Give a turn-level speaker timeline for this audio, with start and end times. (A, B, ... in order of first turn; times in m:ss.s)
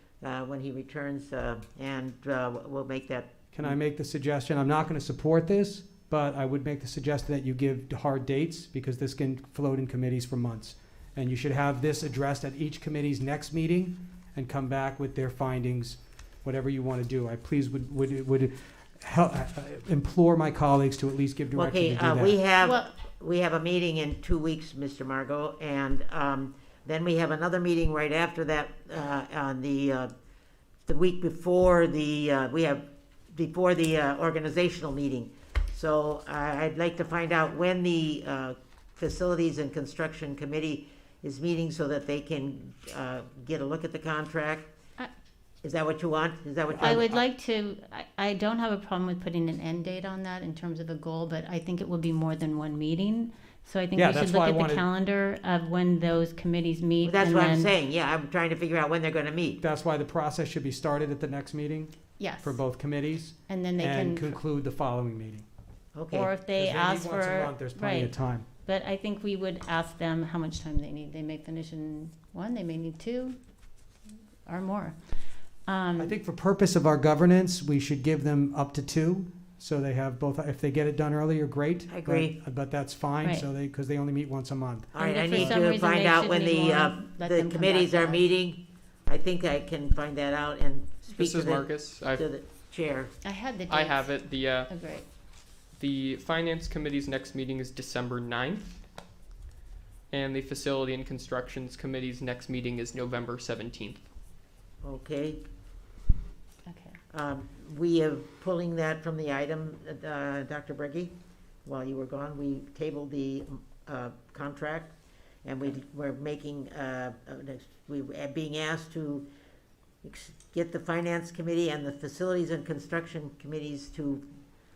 0:00.2-0:03.7 A
0:03.5-0:22.4 B
0:21.6-0:30.1 A
0:22.6-0:22.9 C
0:30.9-0:44.7 A
0:45.6-0:47.1 A
0:46.7-0:47.2 B
0:46.8-0:57.7 C
0:54.0-0:54.8 B
0:57.0-0:59.6 A
0:59.6-1:05.5 B
1:02.2-1:02.6 C
1:03.5-1:04.4 C
1:06.0-1:06.3 A
1:06.1-1:13.4 C
1:06.6-1:08.5 B
1:14.4-1:15.0 C
1:15.7-1:16.1 C
1:16.0-1:25.5 B
1:21.9-1:22.4 A
1:23.2-1:23.5 C
1:24.9-1:33.1 A
1:25.0-1:28.2 C
1:31.1-1:32.3 D
1:33.2-1:35.0 C
1:33.7-1:34.7 D
1:35.8-1:38.8 D
1:40.1-1:44.0 D
1:44.8-1:45.4 A
1:46.7-1:47.0 C
1:47.1-1:51.1 A
1:51.6-1:54.9 A
1:55.4-1:59.3 A
2:00.0-2:04.2 A